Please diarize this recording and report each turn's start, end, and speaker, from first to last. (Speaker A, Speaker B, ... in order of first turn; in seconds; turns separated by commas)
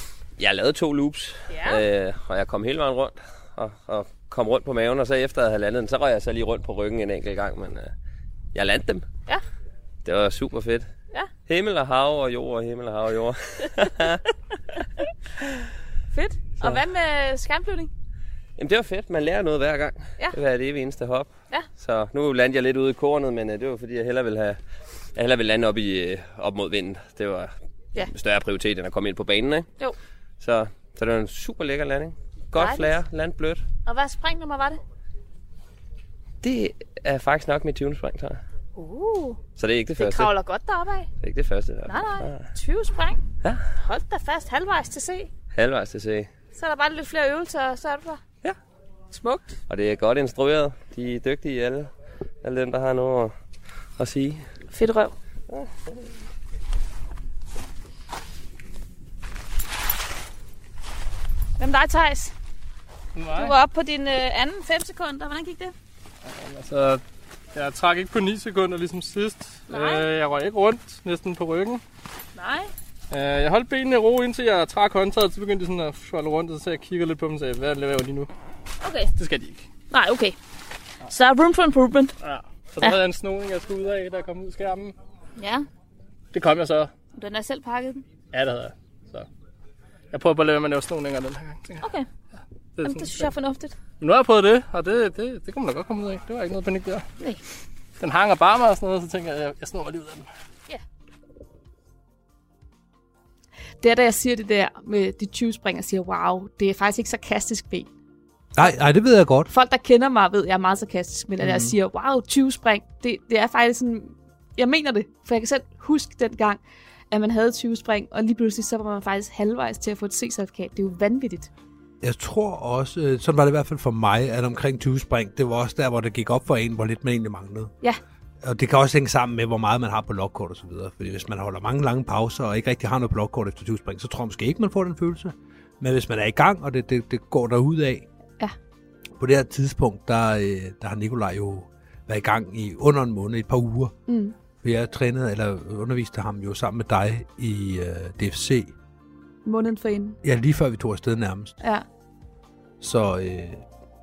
Speaker A: 0.4-7.9, Speaker B: 1.5-1.8, Speaker A: 8.5-9.1, Speaker A: 10.0-10.9, Speaker A: 11.4-14.2, Speaker B: 16.1-17.9, Speaker A: 18.6-24.6, Speaker A: 25.1-29.7, Speaker A: 30.4-33.6, Speaker B: 32.5-33.0, Speaker B: 33.9-34.8, Speaker A: 36.4-38.4, Speaker B: 38.8-39.4, Speaker A: 39.5-40.3, Speaker B: 39.9-41.1, Speaker A: 41.2-42.5, Speaker B: 41.9-43.2, Speaker B: 43.8-45.3, Speaker A: 45.5-46.3, Speaker B: 46.5-48.2, Speaker B: 49.1-49.5, Speaker A: 49.7-51.9, Speaker A: 52.4-53.3, Speaker A: 54.0-54.5, Speaker B: 54.7-55.1, Speaker B: 61.6-62.3, Speaker C: 63.1-63.5, Speaker B: 63.3-65.7, Speaker C: 66.2-67.0, Speaker C: 67.5-71.8, Speaker B: 69.7-70.0, Speaker B: 72.4-72.6, Speaker C: 73.1-78.3, Speaker C: 79.2-79.7, Speaker B: 79.9-80.3, Speaker B: 81.0-82.1, Speaker C: 82.2-85.0, Speaker C: 86.3-86.9, Speaker B: 87.2-88.0, Speaker C: 88.3-89.3, Speaker C: 90.1-91.8, Speaker B: 91.8-92.0, Speaker C: 92.8-93.3, Speaker B: 92.8-93.7, Speaker C: 94.0-97.0, Speaker C: 98.0-100.2, Speaker B: 103.8-107.9, Speaker D: 108.5-109.5, Speaker B: 109.5-121.5, Speaker D: 111.4-111.8, Speaker D: 122.0-127.7, Speaker D: 128.4-138.0, Speaker D: 139.2-143.9, Speaker B: 144.1-144.3, Speaker D: 144.6-148.7, Speaker B: 149.4-150.2, Speaker D: 150.2-151.5, Speaker D: 152.8-153.6